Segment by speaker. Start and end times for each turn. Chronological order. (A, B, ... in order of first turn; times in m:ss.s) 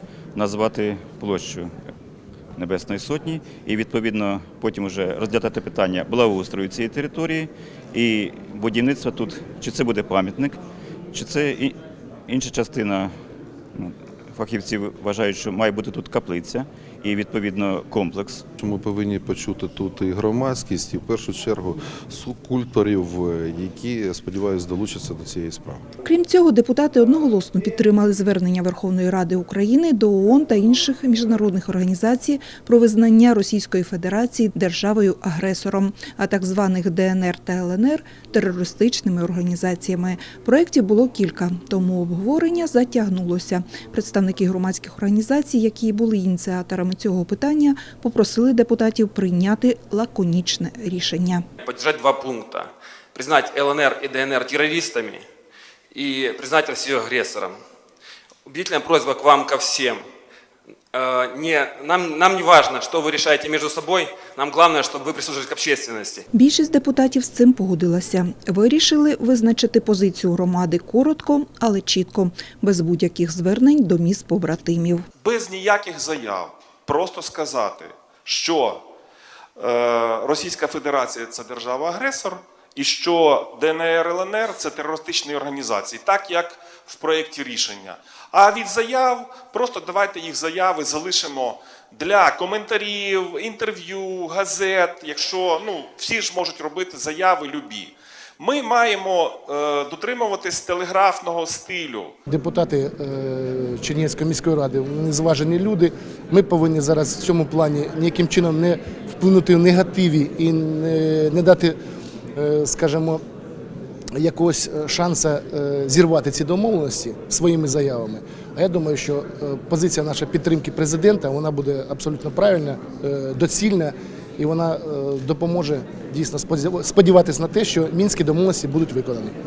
0:00.4-0:01.7 A
0:02.6-0:10.6 A
0:11.1-0:11.8 A
0:12.3-0:13.1 A
0:13.8-0:18.4 A
0:18.6-0:25.8 B
0:26.0-0:51.4 C
0:51.6-0:55.2 D
0:55.9-0:57.6 D
0:58.4-1:00.0 D
1:00.9-1:06.2 D
1:06.3-1:15.0 C
1:15.2-1:18.8 E
1:19.6-1:42.1 E
1:42.3-1:51.7 F
1:52.3-1:53.2 F
1:54.1-2:09.3 F